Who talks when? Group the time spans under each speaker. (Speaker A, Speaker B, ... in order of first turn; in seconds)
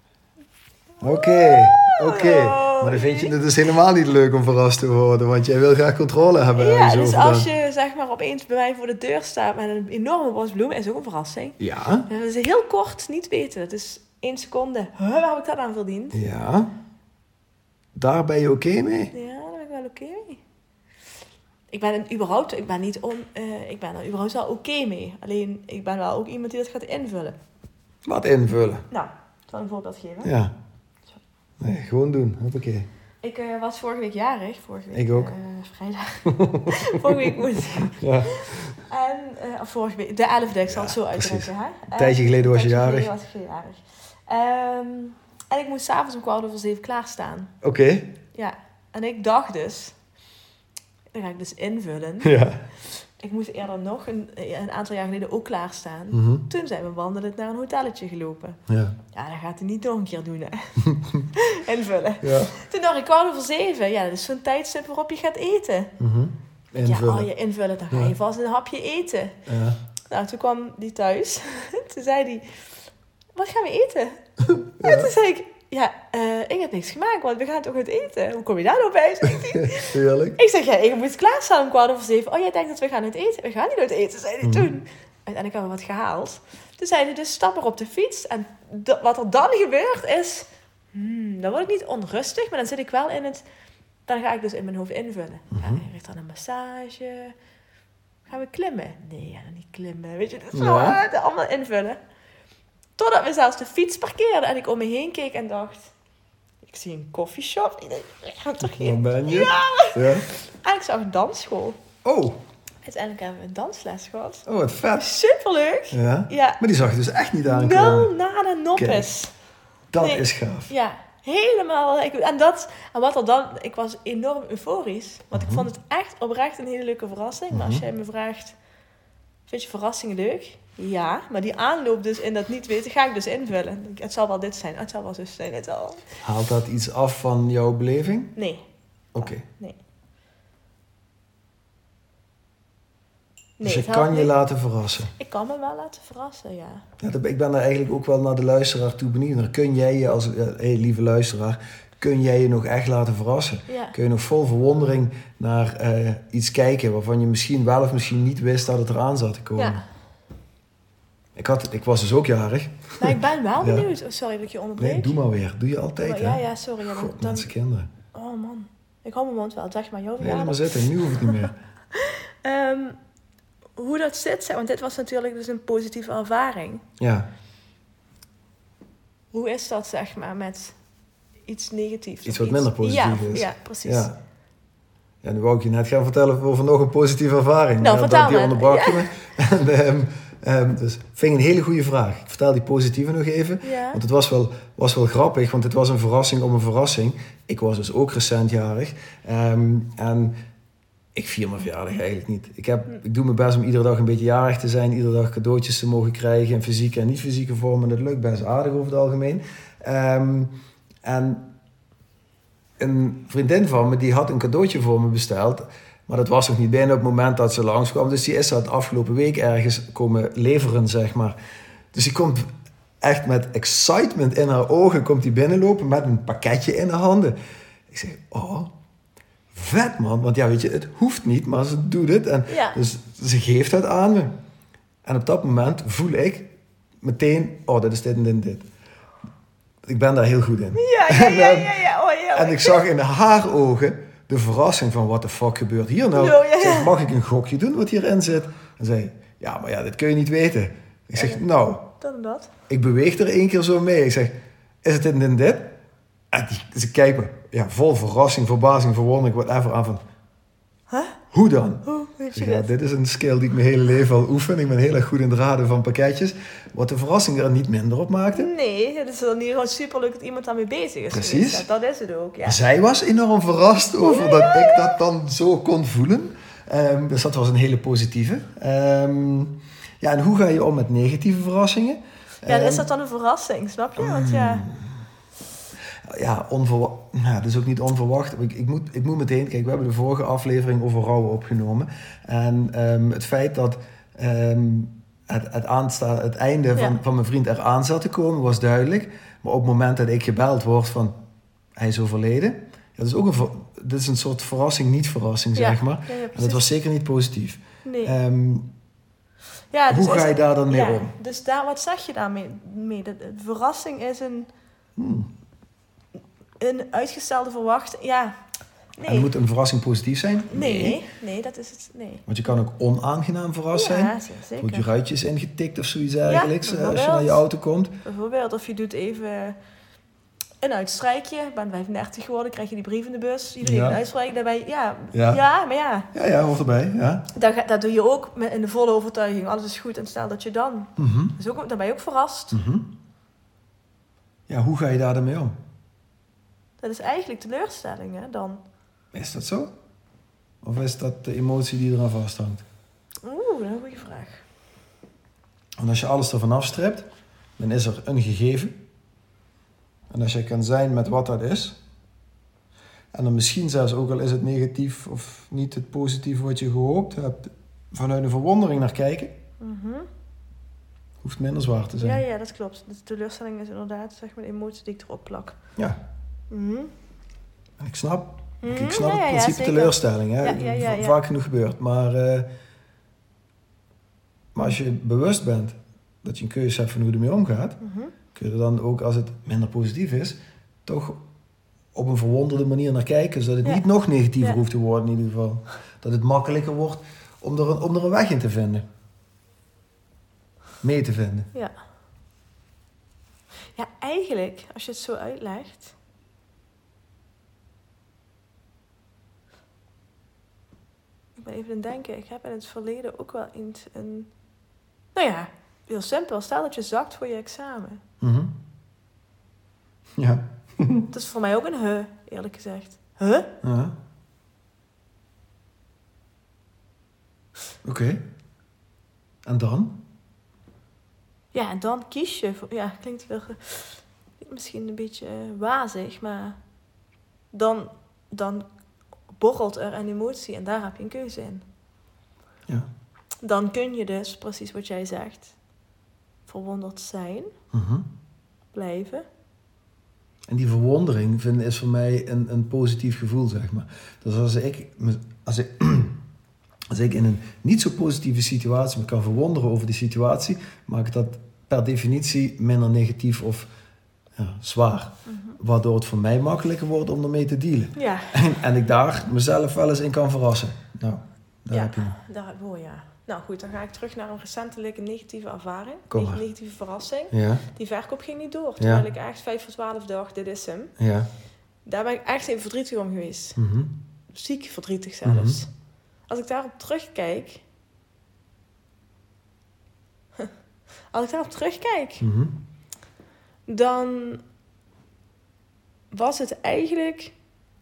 Speaker A: 1.0-3.3, 6.5-16.2, 19.1-20.4, 21.7-27.4, 28.9-30.3, 33.2-38.0, 38.9-47.5, 48.3-50.0, 51.1-58.6, 59.1-60.8, 61.3-65.9, 66.8-69.4, 70.1-72.6, 73.3-74.2, 74.8-93.4, 94.1-97.3, 98.3-102.0, 103.0-105.9, 106.6-111.8, 112.8-114.5, 115.0-116.6, 117.4-119.3, 120.0-128.6, 129.5-136.1, 138.3-138.6, 139.2-139.8, 143.6-144.3, 145.1-146.8, 153.7-153.9, 159.6-159.8, 163.0-165.2, 166.0-167.5, 168.1-173.0, 173.8-176.8, 179.3-180.8, 181.5-184.1, 187.8-189.1, 193.6-194.0, 232.5-232.8, 240.7-242.8, 246.1-246.9, 251.2-251.4, 252.0-252.5, 260.9-261.2, 261.8-262.7, 268.3-272.6, 274.0-275.0, 282.4-284.7, 305.5-306.6, 307.8-308.1, 309.7-314.5, 316.6-318.4, 319.0-319.3, 320.5-322.2, 323.7-324.9, 326.2-327.4, 328.0-329.6, 330.6-336.1, 337.3-342.6, 346.8-348.6, 353.2-354.4, 369.6-370.1, 372.0-375.6, 376.5-376.9, 378.6-381.2, 387.8-388.1, 403.8-405.9, 411.4-414.3, 415.1-418.0, 421.1-423.5, 431.5-436.6, 437.5-438.6, 439.4-441.6, 443.4-445.5, 446.5-447.5, 448.7-449.2, 465.3-465.6, 467.9-468.4, 471.7-480.9, 481.9-483.6, 484.3-485.7, 486.3-487.6, 491.1-492.2, 493.7-494.4, 496.1-497.3
Speaker B: 1.0-7.5, 11.6-12.1, 16.1-16.7, 17.9-19.1, 28.0-28.8, 30.2-30.5, 31.6-32.9, 34.9-35.3, 36.3-38.8, 40.7-43.1, 47.6-48.1, 52.2-52.6, 56.1-56.4, 58.7-59.0, 60.8-61.3, 62.2-62.5, 66.0-67.3, 69.5-69.8, 74.4-75.1, 79.3-80.4, 84.4-84.7, 95.5-95.8, 100.5-101.0, 108.6-110.2, 112.0-112.4, 114.5-115.1, 115.9-118.1, 118.7-119.1, 119.9-120.7, 125.3-125.7, 127.5-127.8, 136.2-138.3, 139.1-139.4, 143.6-145.1, 147.0-159.8, 161.3-163.9, 164.8-167.9, 170.2-171.5, 177.0-177.3, 182.2-184.1, 185.2-200.4, 201.1-210.5, 211.0-211.5, 212.8-221.4, 221.9-222.5, 223.0-227.3, 227.9-228.7, 229.5-234.4, 235.0-238.7, 239.8-241.8, 242.3-251.9, 252.7-255.7, 256.3-260.0, 261.3-268.5, 271.1-271.6, 272.4-282.9, 284.0-285.0, 286.0-301.2, 301.8-308.7, 309.9-311.1, 314.9-315.3, 319.1-321.0, 322.3-327.9, 333.6-334.0, 335.1-335.4, 336.1-337.3, 341.0-341.3, 342.5-342.9, 344.5-345.6, 349.1-349.7, 350.6-352.6, 355.8-358.8, 360.1-361.8, 363.1-369.4, 371.2-372.2, 377.8-382.5, 384.5-387.8, 388.3-391.2, 391.9-398.8, 400.8-401.5, 418.2-418.5, 420.2-421.1, 423.6-423.9, 427.8-428.2, 429.4-430.0, 447.7-448.1, 450.5-456.2, 456.9-463.7, 464.4-472.2, 476.1-476.4, 477.3-477.6, 478.8-479.1, 481.0-481.3, 483.6-483.9, 485.2-485.6, 492.2-492.6